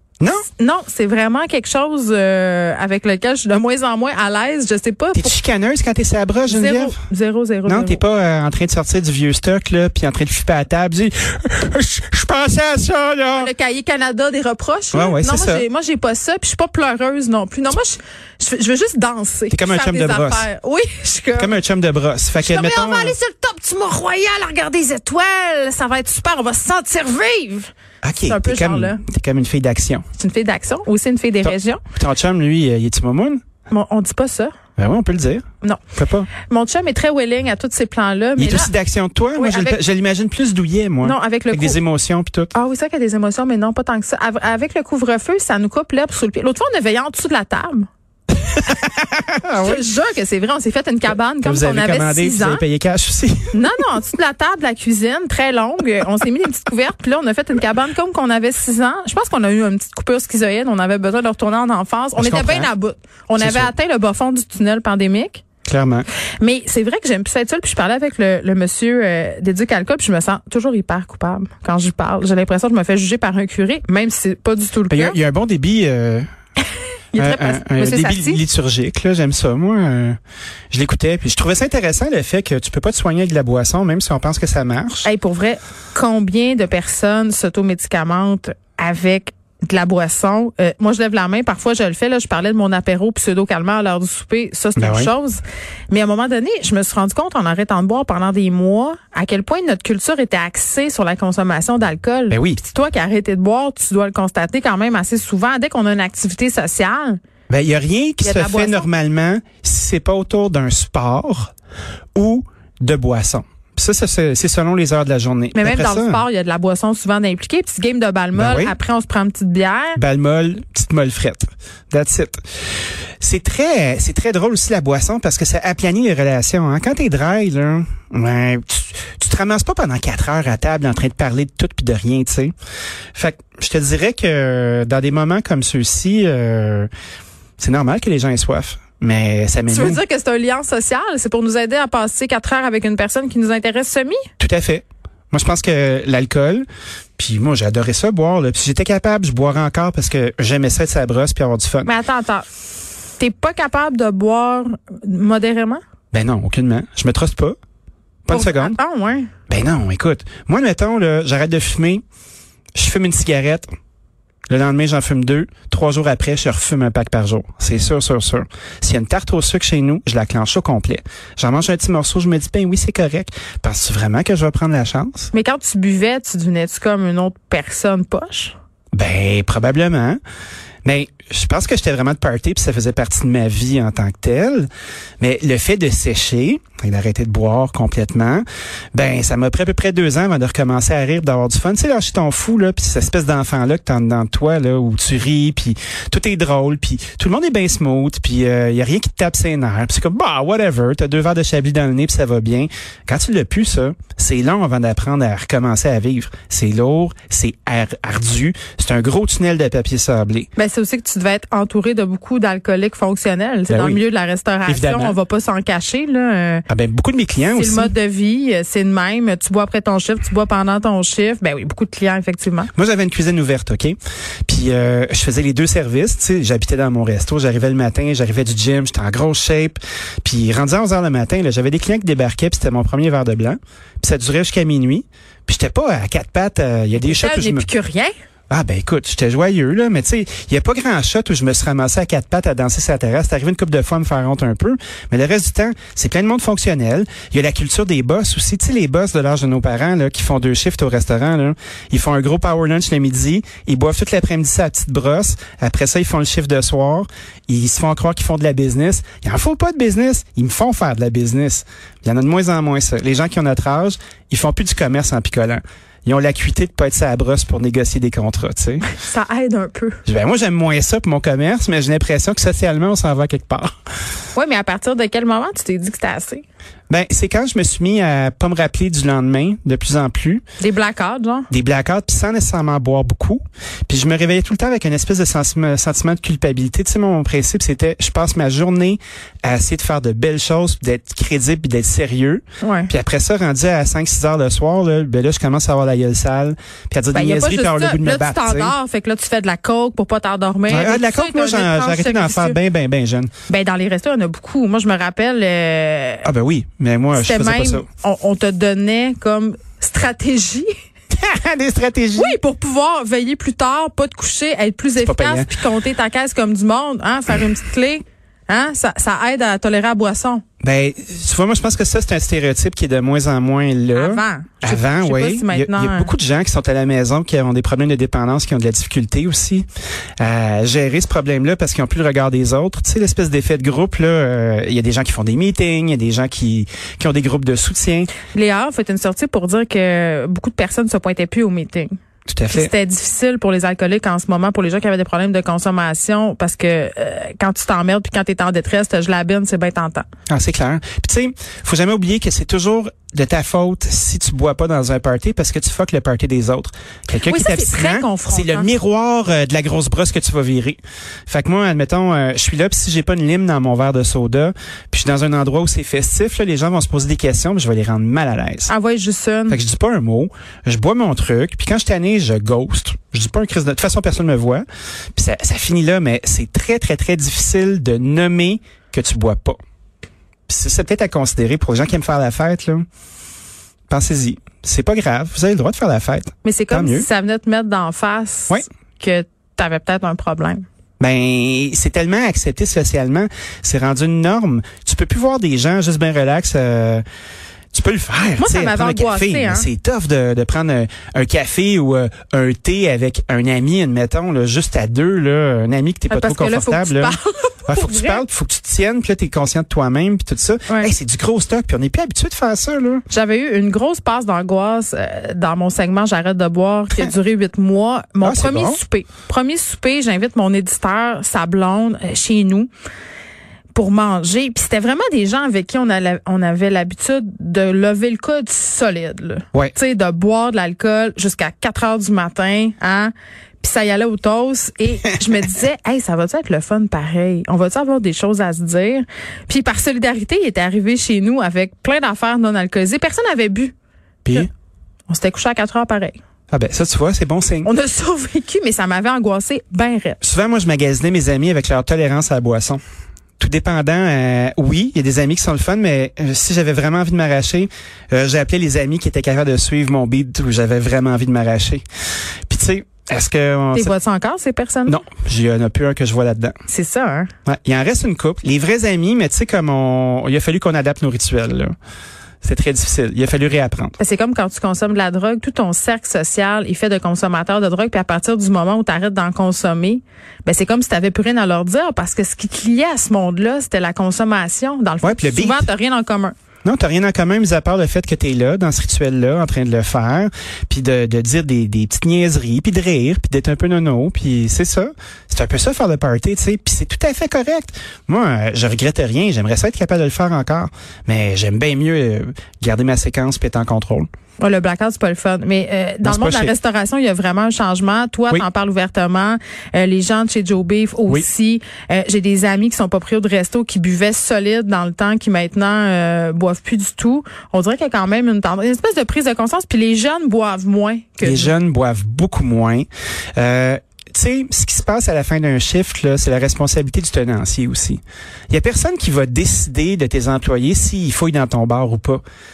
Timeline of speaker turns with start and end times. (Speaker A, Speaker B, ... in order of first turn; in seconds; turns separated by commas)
Speaker A: 0.2-0.5, Speaker B: 0.5-5.4, Speaker A: 5.1-7.0, Speaker B: 6.5-8.0, Speaker A: 7.7-13.5, Speaker B: 13.3-21.6, Speaker A: 14.9-15.6, Speaker A: 19.5-20.5, Speaker A: 21.4-23.1, Speaker B: 22.4-27.7, Speaker A: 28.0-30.0, Speaker B: 28.2-29.0, Speaker B: 30.2-31.8, Speaker A: 31.4-33.4, Speaker B: 33.7-34.5, Speaker A: 34.8-35.4, Speaker B: 35.6-38.7, Speaker A: 35.9-36.3, Speaker A: 38.4-42.5, Speaker B: 39.4-39.8, Speaker B: 41.0-41.8, Speaker B: 42.5-47.9, Speaker A: 48.4-49.8, Speaker B: 49.5-52.6, Speaker A: 51.4-53.6, Speaker B: 53.5-65.4, Speaker A: 62.1-62.7, Speaker A: 63.4-63.7, Speaker A: 65.7-66.1, Speaker B: 66.4-75.2, Speaker A: 74.9-76.2, Speaker B: 77.1-78.4, Speaker A: 77.2-80.2, Speaker A: 80.7-85.1, Speaker B: 85.0-107.2, Speaker A: 94.8-95.1, Speaker A: 102.3-102.6, Speaker A: 107.5-111.5, Speaker B: 108.2-108.9, Speaker A: 112.1-116.2, Speaker B: 115.5-120.0, Speaker A: 118.3-118.7, Speaker A: 120.0-122.4, Speaker A: 123.2-132.5, Speaker A: 133.1-136.9, Speaker A: 137.6-140.0, Speaker B: 139.7-144.3, Speaker A: 144.4-146.6, Speaker A: 147.2-151.9, Speaker B: 151.8-152.5, Speaker B: 153.2-155.8, Speaker A: 156.1-157.5, Speaker A: 158.2-158.8, Speaker B: 158.3-159.3, Speaker A: 159.5-162.0, Speaker A: 162.7-163.7, Speaker A: 164.5-175.3, Speaker B: 175.3-178.5, Speaker A: 178.9-180.2, Speaker A: 180.8-184.7, Speaker A: 185.2-210.5, Speaker B: 210.6-216.6, Speaker A: 213.7-214.0, Speaker A: 214.7-215.2, Speaker A: 216.7-217.9, Speaker B: 217.5-222.7, Speaker A: 222.7-223.9, Speaker A: 224.5-237.7, Speaker B: 237.0-238.1, Speaker A: 238.5-268.9, Speaker B: 268.9-270.0, Speaker A: 270.1-273.8, Speaker B: 274.3-276.4, Speaker A: 276.9-280.4, Speaker B: 280.6-281.5, Speaker A: 281.5-298.8, Speaker B: 292.6-292.9, Speaker B: 297.1-302.6, Speaker A: 300.7-303.3, Speaker B: 303.5-306.3, Speaker A: 306.2-307.9, Speaker B: 307.1-310.7, Speaker A: 311.1-312.4, Speaker B: 312.1-320.4, Speaker A: 314.9-315.6, Speaker A: 320.6-329.6, Speaker B: 323.9-326.1, Speaker A: 330.2-338.1, Speaker B: 338.2-341.9, Speaker A: 342.3-342.7, Speaker B: 342.5-350.1, Speaker A: 350.3-368.7, Speaker B: 357.2-358.7, Speaker B: 368.7-369.6, Speaker A: 369.5-379.6, Speaker A: 380.5-382.8, Speaker A: 383.9-387.1, Speaker B: 386.4-390.6, Speaker A: 391.0-397.0, Speaker A: 397.7-413.0, Speaker B: 398.4-399.7, Speaker B: 406.1-408.2, Speaker B: 413.1-422.7, Speaker A: 418.2-418.8, Speaker B: 423.7-443.7, Speaker A: 444.2-444.5, Speaker B: 445.1-446.2, Speaker A: 446.5-447.7, Speaker B: 447.6-450.2, Speaker A: 450.2-452.8, Speaker A: 453.4-461.8, Speaker A: 462.5-463.9, Speaker B: 463.7-465.0, Speaker A: 464.9-466.5, Speaker B: 466.7-467.3, Speaker A: 467.4-471.7, Speaker A: 472.4-473.9, Speaker B: 474.0-486.3, Speaker A: 485.0-485.6, Speaker A: 486.6-504.1, Speaker B: 504.4-521.5, Speaker A: 506.0-506.5, Speaker A: 521.2-532.2